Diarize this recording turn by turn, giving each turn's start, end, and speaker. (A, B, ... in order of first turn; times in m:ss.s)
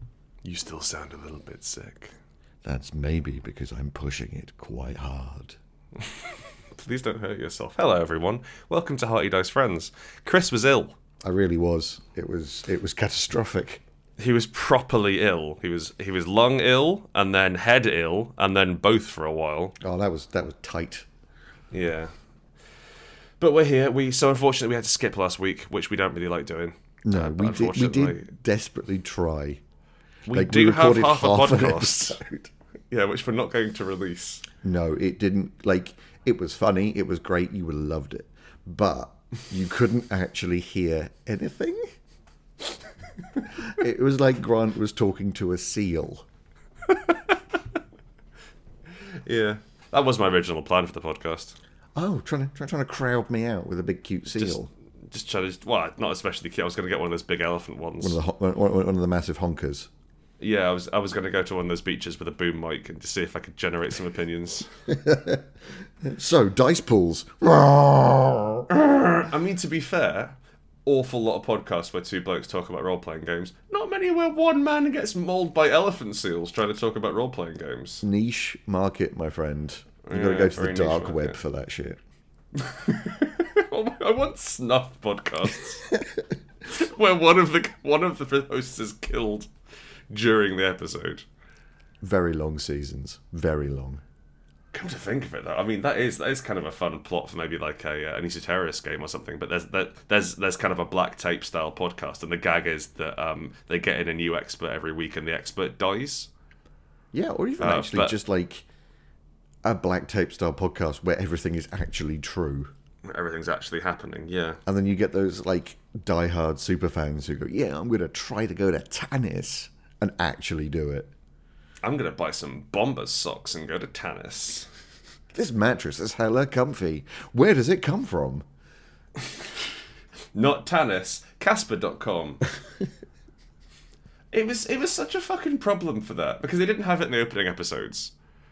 0:00.4-0:02.1 A
0:02.6-0:05.6 B
0:06.7-0:11.0 A
0:11.2-0:13.8 B
0:14.2-0:19.7 A
0:19.8-0:21.1 B
0:21.7-0:22.1 A
0:23.4-0:28.3 A
0:27.0-0:29.6 B
0:30.2-0:32.2 A
0:30.3-0:32.5 B
0:32.9-0:34.4 A
0:34.6-0:41.9 B
0:43.6-0:46.2 B
0:49.2-0:51.6 A
0:51.9-0:54.7 B
0:55.1-0:58.2 A
0:58.0-0:59.9 B
1:00.4-1:04.7 A
1:04.9-1:05.4 B
1:06.0-1:08.7 B
1:08.8-1:18.0 A
1:18.0-1:22.0 B
1:20.0-1:21.4 A
1:22.5-1:25.8 A
1:26.6-1:29.5 A
1:30.1-1:31.2 A
1:32.0-1:34.0 B
1:34.7-1:46.3 A
1:47.1-1:48.6 B
1:47.6-1:48.2 A
1:49.6-1:52.7 B
1:53.0-1:54.6 A
1:54.6-2:01.1 B
2:01.8-2:04.7 A
2:05.3-2:08.4 B
2:10.3-2:12.5 A
2:14.3-2:18.1 A